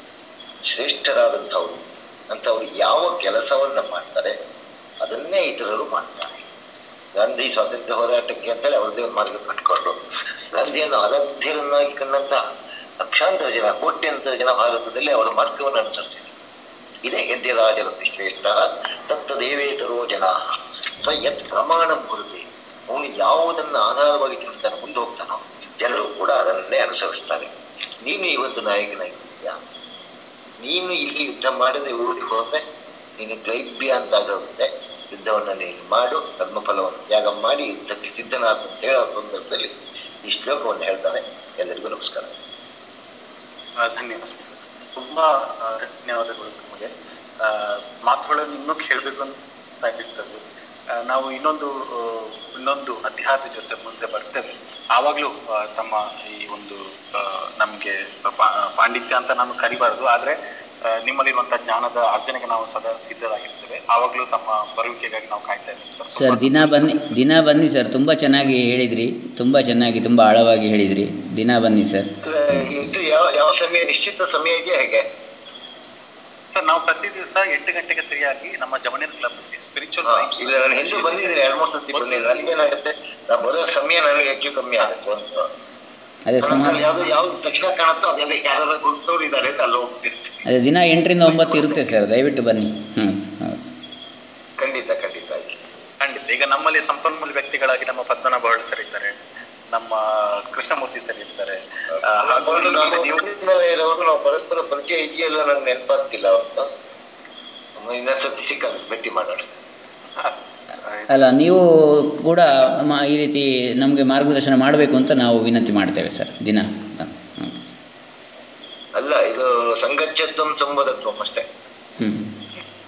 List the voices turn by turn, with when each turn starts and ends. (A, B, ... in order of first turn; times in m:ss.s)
0:00.7-0:04.3 A
0:05.0-0:06.4 A
0:07.1-0:10.0 A
0:10.5-0:12.4 A
0:13.0-0:16.3 A
0:17.0-0:20.3 A
0:21.0-0:27.5 A
0:28.0-0:29.6 A
0:30.6-0:32.6 A
0:33.2-0:39.7 A
0:40.2-0:42.3 A
0:43.8-0:46.9 B
0:47.4-0:50.4 B
0:51.1-1:00.3 B
1:01.0-1:07.0 B
1:06.2-1:12.7 C
1:12.2-1:15.0 A
1:16.5-1:22.7 B
1:20.1-1:25.4 A
1:26.3-1:26.8 C
1:26.4-1:30.4 A
1:30.5-1:33.7 C
1:34.6-1:35.6 A
1:36.0-1:39.2 B
1:39.7-1:43.2 B
1:42.2-1:46.7 A
1:47.8-1:49.4 A
1:50.8-1:51.1 B
1:51.1-1:51.6 C
1:52.2-1:57.7 C
1:59.0-2:01.4 A
2:02.0-2:02.4 C